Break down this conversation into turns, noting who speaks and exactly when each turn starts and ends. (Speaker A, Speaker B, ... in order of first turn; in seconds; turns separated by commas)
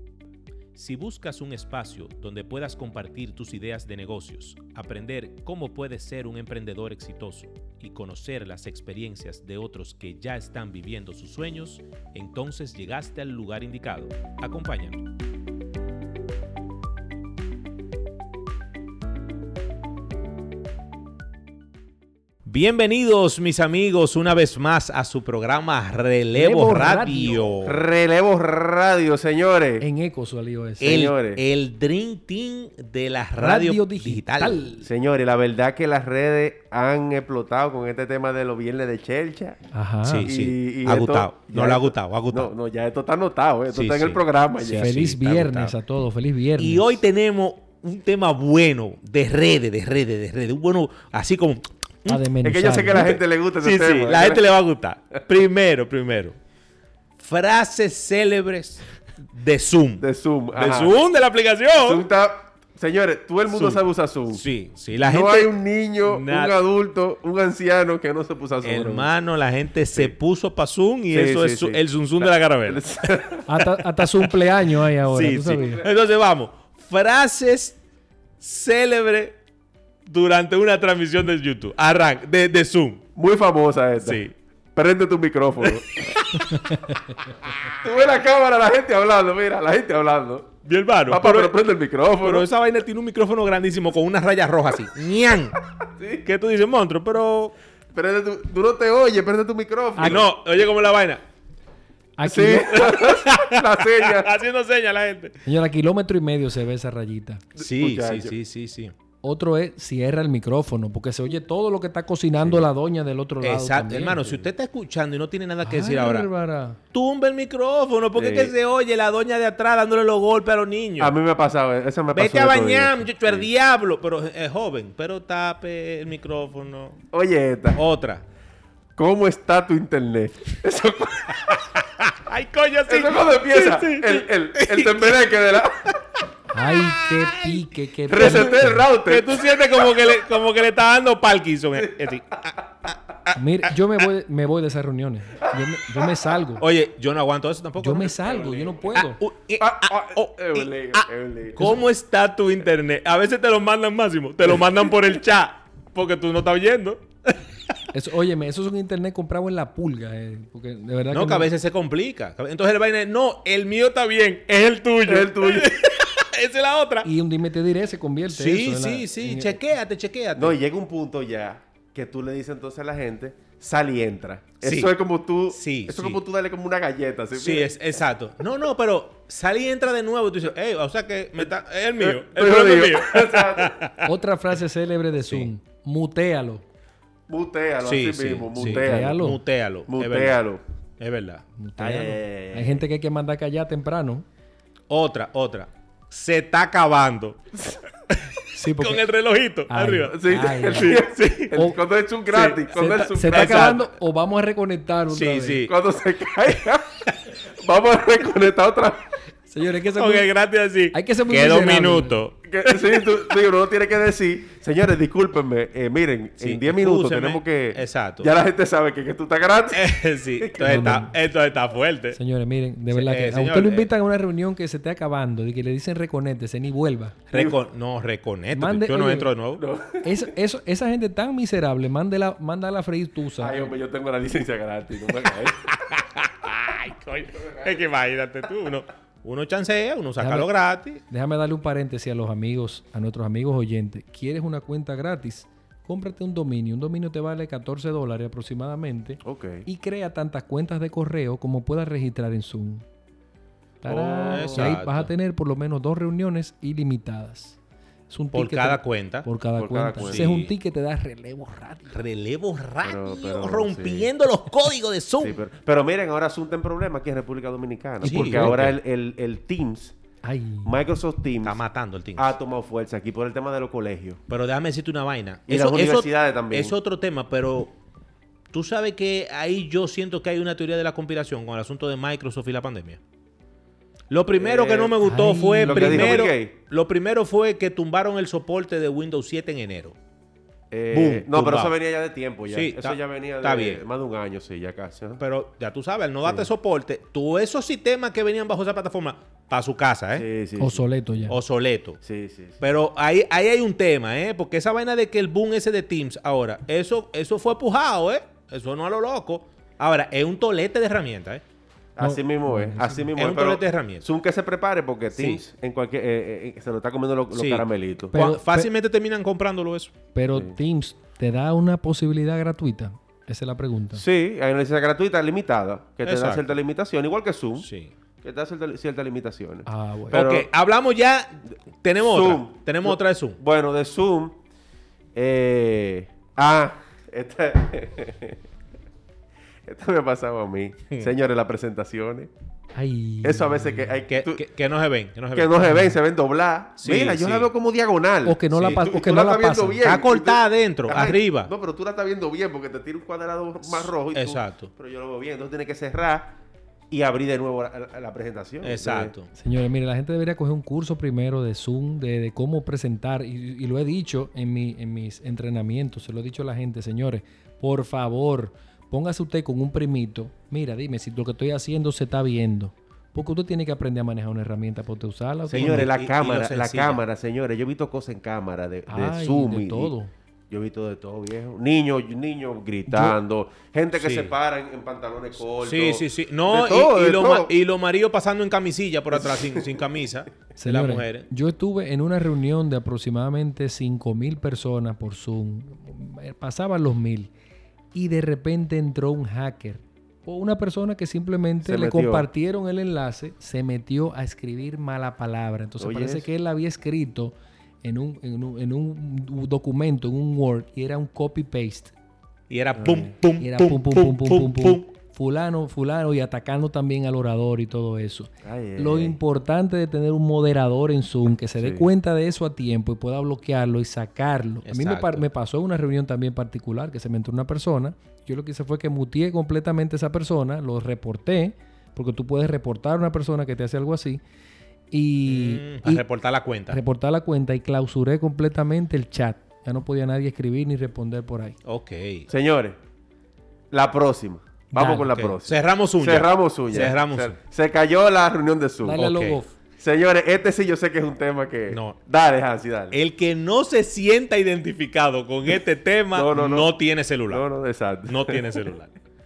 Speaker A: 0.7-15.0, Speaker A: 22.4-27.8, Speaker B: 26.3-27.4, Speaker C: 27.6-29.9, Speaker B: 29.8-30.9, Speaker C: 30.8-31.4, Speaker A: 30.8-34.6, Speaker B: 33.4-34.9, Speaker C: 34.8-39.6, Speaker B: 39.7-40.3, Speaker A: 40.0-42.5, Speaker C: 40.2-45.0, Speaker A: 43.7-45.7, Speaker B: 44.7-47.0, Speaker A: 46.6-52.3, Speaker B: 52.1-53.1, Speaker C: 52.4-54.5, Speaker A: 52.9-56.4, Speaker A: 57.2-60.0, Speaker C: 60.0-61.0, Speaker A: 60.5-62.0, Speaker C: 61.8-64.4, Speaker A: 63.5-66.6, Speaker C: 65.0-69.1, Speaker A: 68.6-72.8, Speaker C: 71.1-73.5, Speaker B: 73.5-75.8, Speaker A: 74.0-74.3, Speaker A: 74.9-77.8, Speaker C: 75.5-75.8, Speaker A: 78.4-79.4, Speaker A: 80.0-83.0, Speaker C: 83.2-86.1, Speaker A: 84.0-84.3, Speaker A: 85.6-86.6, Speaker B: 86.5-87.1, Speaker C: 87.8-90.5, Speaker A: 90.6-91.6, Speaker C: 91.1-92.5, Speaker A: 92.2-95.5, Speaker C: 96.0-96.2, Speaker A: 96.2-97.5, Speaker C: 97.9-100.3, Speaker B: 100.0-100.2, Speaker A: 100.0-101.2, Speaker B: 102.2-102.8, Speaker C: 102.2-104.3, Speaker A: 102.7-105.4, Speaker B: 105.4-107.4, Speaker C: 107.5-108.3, Speaker A: 107.6-108.9, Speaker B: 109.2-114.5, Speaker A: 113.4-116.3, Speaker B: 115.6-116.8, Speaker A: 116.9-121.1, Speaker C: 118.1-118.5, Speaker C: 121.0-123.5, Speaker A: 122.1-127.0, Speaker C: 127.1-127.8, Speaker A: 127.7-128.2, Speaker C: 129.0-131.6, Speaker A: 131.4-135.6, Speaker C: 132.9-135.9, Speaker B: 136.5-138.9, Speaker A: 136.6-137.5, Speaker C: 138.1-139.4, Speaker A: 138.2-143.4, Speaker C: 141.8-142.2, Speaker B: 143.3-146.6, Speaker C: 145.6-146.3, Speaker A: 146.6-157.4, Speaker B: 147.8-149.2, Speaker C: 148.3-148.8, Speaker C: 149.6-151.7, Speaker B: 157.9-161.5, Speaker A: 161.1-167.1, Speaker C: 165.1-165.7, Speaker B: 167.0-169.6, Speaker A: 168.3-170.6, Speaker C: 170.3-177.7, Speaker A: 174.6-174.9, Speaker A: 175.5-176.2, Speaker A: 177.3-184.1, Speaker C: 181.4-183.8, Speaker B: 184.0-186.6, Speaker A: 185.2-185.5, Speaker C: 187.3-189.2, Speaker A: 187.8-190.4, Speaker B: 188.5-189.4, Speaker C: 189.9-190.6, Speaker A: 191.0-191.4, Speaker B: 191.6-194.2, Speaker C: 191.8-192.8, Speaker A: 194.9-197.4, Speaker A: 198.1-201.6, Speaker B: 198.5-199.1, Speaker B: 199.7-201.0, Speaker C: 200.1-203.8, Speaker B: 202.3-205.6, Speaker A: 203.3-203.8, Speaker A: 205.1-205.7, Speaker C: 205.7-206.8, Speaker C: 207.5-209.0, Speaker B: 209.5-210.3, Speaker A: 209.9-213.1, Speaker B: 210.9-212.2, Speaker C: 212.5-219.8, Speaker A: 216.4-218.3, Speaker A: 219.7-222.2, Speaker C: 220.4-221.0, Speaker B: 220.6-221.1, Speaker B: 222.1-227.2, Speaker A: 222.9-223.9, Speaker A: 227.3-229.6, Speaker C: 227.3-227.6, Speaker B: 228.5-229.3, Speaker C: 229.6-230.2, Speaker B: 230.0-233.6, Speaker C: 233.4-235.7, Speaker A: 235.7-241.0, Speaker B: 240.2-252.8, Speaker C: 249.2-249.7, Speaker B: 253.8-257.6, Speaker C: 253.8-254.8, Speaker A: 254.3-255.1, Speaker B: 258.1-262.0, Speaker A: 258.3-259.3, Speaker C: 259.5-260.4, Speaker A: 260.0-260.5, Speaker A: 261.9-265.4, Speaker C: 262.8-264.1, Speaker C: 265.2-269.9, Speaker B: 268.0-268.5, Speaker A: 268.0-268.8, Speaker B: 270.2-270.8, Speaker C: 270.6-271.6, Speaker A: 271.4-272.3, Speaker C: 272.1-274.2, Speaker A: 274.3-277.7, Speaker C: 275.5-276.7, Speaker A: 278.5-283.0, Speaker A: 284.1-289.9, Speaker C: 284.4-285.0, Speaker B: 285.0-286.2, Speaker C: 285.6-286.6, Speaker C: 290.7-295.2, Speaker A: 290.9-291.7, Speaker A: 292.5-293.8, Speaker A: 295.2-300.2, Speaker C: 296.2-296.5, Speaker C: 300.1-300.9, Speaker B: 300.6-301.4, Speaker A: 301.3-302.0, Speaker C: 302.0-302.6, Speaker A: 302.6-311.4, Speaker C: 311.9-318.2, Speaker B: 312.0-313.1, Speaker A: 313.2-314.0, Speaker A: 315.1-315.4, Speaker A: 317.3-319.9, Speaker B: 318.1-318.7, Speaker B: 320.1-324.0, Speaker C: 320.3-320.6, Speaker C: 323.9-327.7, Speaker A: 326.0-326.6, Speaker A: 327.6-327.9, Speaker C: 328.2-330.5, Speaker B: 329.7-330.2, Speaker A: 330.1-333.4, Speaker C: 332.0-334.4, Speaker C: 335.1-338.4, Speaker C: 339.6-342.3, Speaker B: 342.7-344.0, Speaker C: 343.2-344.4, Speaker A: 344.1-345.5, Speaker C: 345.3-356.4, Speaker B: 345.7-345.9, Speaker A: 346.8-347.5, Speaker B: 348.2-349.8, Speaker A: 348.5-348.8, Speaker A: 349.8-351.5, Speaker A: 353.7-354.7, Speaker C: 356.9-359.1, Speaker A: 358.6-359.3, Speaker B: 359.3-375.9, Speaker C: 375.5-379.9, Speaker A: 375.5-377.0, Speaker B: 378.9-380.1, Speaker C: 380.5-387.5, Speaker B: 382.9-383.2, Speaker A: 383.9-384.3, Speaker A: 385.6-391.3, Speaker C: 389.1-389.7, Speaker B: 390.6-397.3, Speaker B: 397.9-411.9, Speaker C: 401.6-402.3, Speaker C: 405.8-406.3, Speaker A: 412.5-414.9, Speaker C: 412.7-413.1, Speaker B: 413.4-434.2, Speaker C: 418.4-419.2, Speaker C: 421.6-421.9, Speaker A: 424.6-425.2, Speaker B: 434.9-436.1, Speaker A: 435.2-436.8, Speaker B: 436.7-441.6, Speaker A: 441.6-442.3, Speaker C: 442.3-442.8, Speaker C: 443.7-449.0, Speaker B: 444.7-445.2, Speaker A: 445.1-447.4, Speaker B: 448.8-449.5, Speaker A: 449.0-449.4, Speaker C: 449.8-453.0, Speaker A: 451.7-452.0, Speaker A: 452.9-457.4, Speaker C: 456.1-456.7, Speaker C: 457.3-458.5, Speaker A: 458.1-458.9